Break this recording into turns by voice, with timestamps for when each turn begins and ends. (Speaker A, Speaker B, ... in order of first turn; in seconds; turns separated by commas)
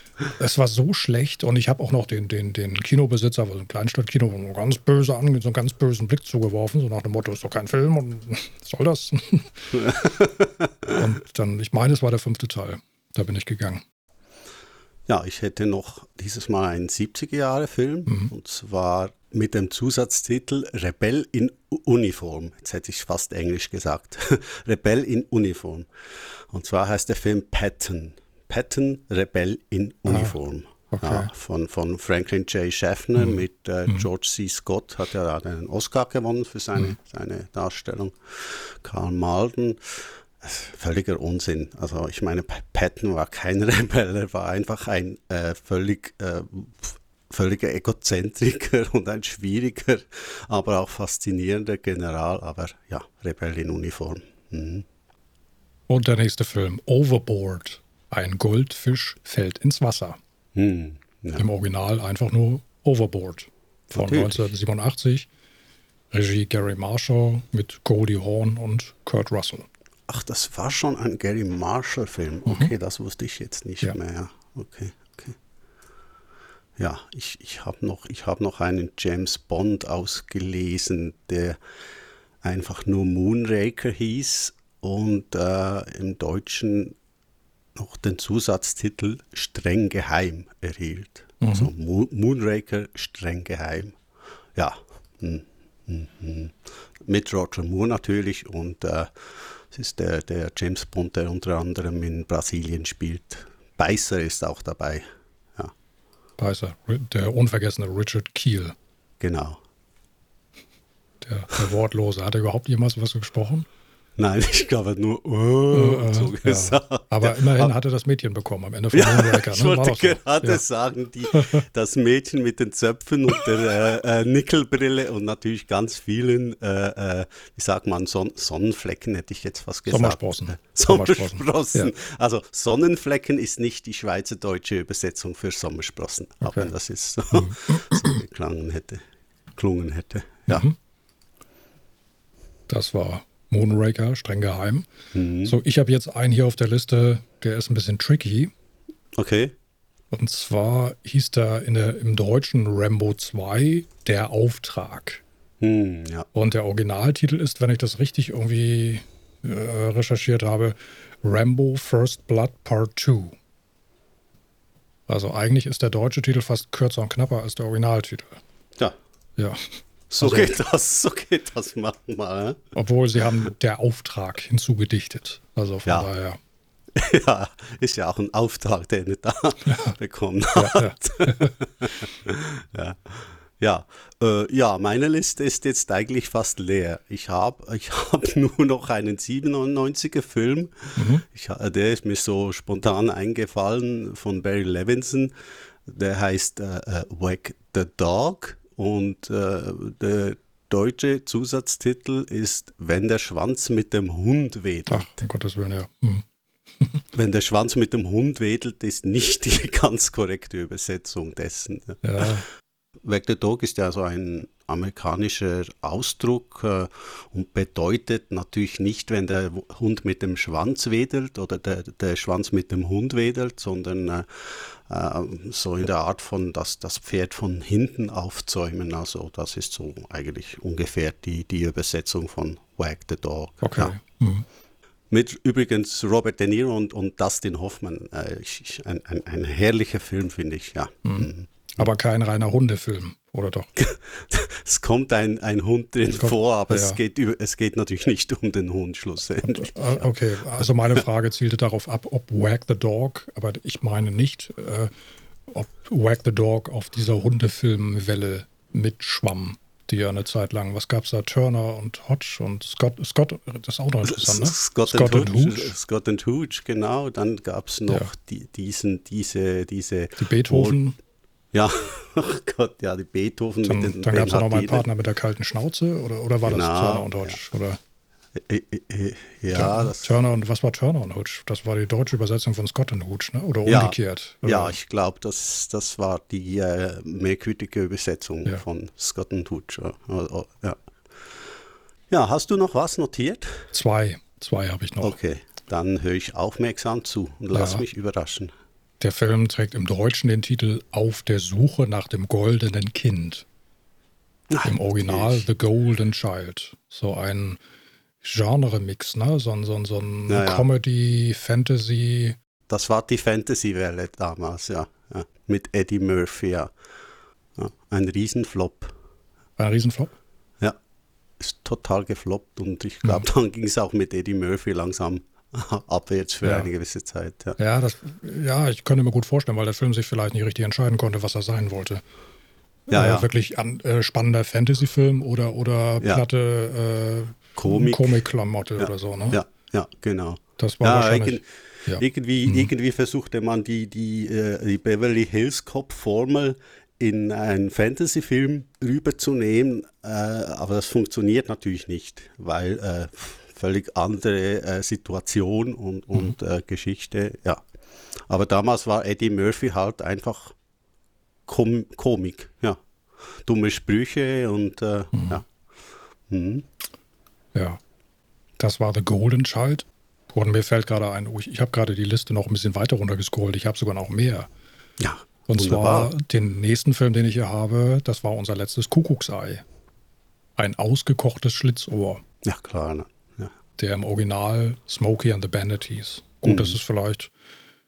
Speaker A: 0.4-10.1, Speaker B: 9.8-10.9, Speaker A: 10.9-13.8, Speaker B: 15.1-25.9, Speaker A: 18.1-18.3, Speaker B: 26.5-54.9, Speaker A: 30.1-30.4, Speaker A: 30.9-31.3, Speaker A: 55.9-60.2, Speaker B: 60.5-61.4, Speaker A: 61.4-65.3, Speaker B: 63.9-64.4, Speaker A: 66.1-69.7, Speaker B: 70.1-75.4, Speaker A: 72.5-72.7, Speaker B: 76.8-81.6, Speaker B: 82.4-87.0, Speaker B: 87.8-94.0, Speaker A: 91.4-91.7, Speaker B: 94.5-105.0, Speaker A: 106.4-108.8, Speaker B: 109.2-109.6, Speaker A: 111.2-113.7, Speaker B: 114.2-117.7, Speaker A: 115.7-120.6, Speaker B: 118.9-139.0, Speaker A: 121.3-121.6, Speaker A: 129.9-131.9, Speaker A: 136.4-136.7, Speaker A: 137.3-138.2, Speaker B: 139.6-140.7, Speaker A: 140.5-140.8, Speaker A: 142.7-144.9, Speaker B: 145.1-145.6, Speaker A: 145.4-148.5, Speaker B: 149.2-149.5, Speaker A: 150.1-155.2, Speaker B: 155.6-156.3, Speaker A: 156.3-163.3, Speaker A: 165.1-168.4, Speaker A: 169.4-169.7, Speaker B: 170.1-172.6, Speaker A: 170.2-170.6, Speaker A: 172.8-176.4, Speaker B: 176.9-195.3, Speaker A: 179.7-179.9, Speaker A: 180.6-181.5, Speaker A: 191.0-191.2, Speaker B: 195.9-205.1, Speaker A: 204.9-206.2, Speaker B: 207.1-212.3, Speaker A: 212.0-212.5, Speaker B: 213.0-233.9, Speaker A: 233.6-234.5, Speaker B: 235.1-241.5, Speaker A: 241.1-243.7, Speaker B: 243.8-250.1, Speaker A: 246.2-247.0, Speaker A: 249.4-254.9, Speaker A: 255.5-265.7, Speaker B: 264.1-270.8, Speaker A: 270.2-271.0, Speaker B: 271.5-274.8, Speaker A: 273.6-277.8, Speaker B: 276.5-277.4, Speaker B: 278.4-280.2, Speaker A: 279.5-284.8, Speaker B: 283.6-290.8, Speaker B: 292.1-293.7, Speaker A: 293.7-295.2, Speaker B: 295.0-298.5, Speaker A: 297.5-297.8, Speaker A: 299.0-303.5, Speaker B: 304.5-305.5, Speaker A: 304.6-307.6, Speaker A: 308.2-312.4, Speaker B: 310.3-310.7, Speaker B: 312.7-316.7, Speaker B: 317.6-318.9, Speaker A: 319.6-320.1, Speaker B: 321.4-327.6, Speaker A: 326.4-326.7, Speaker A: 327.6-332.0, Speaker A: 332.9-339.4, Speaker B: 332.9-333.3, Speaker B: 337.6-338.2, Speaker B: 338.8-357.6, Speaker A: 340.6-342.7, Speaker B: 358.3-360.6, Speaker B: 361.5-362.8, Speaker B: 363.4-365.5, Speaker A: 365.1-365.4, Speaker B: 366.3-366.7, Speaker A: 367.6-367.8, Speaker A: 368.6-374.5, Speaker B: 375.0-376.1, Speaker A: 375.5-379.6, Speaker A: 380.6-382.2, Speaker B: 382.4-383.5, Speaker A: 383.8-387.3, Speaker B: 386.4-386.8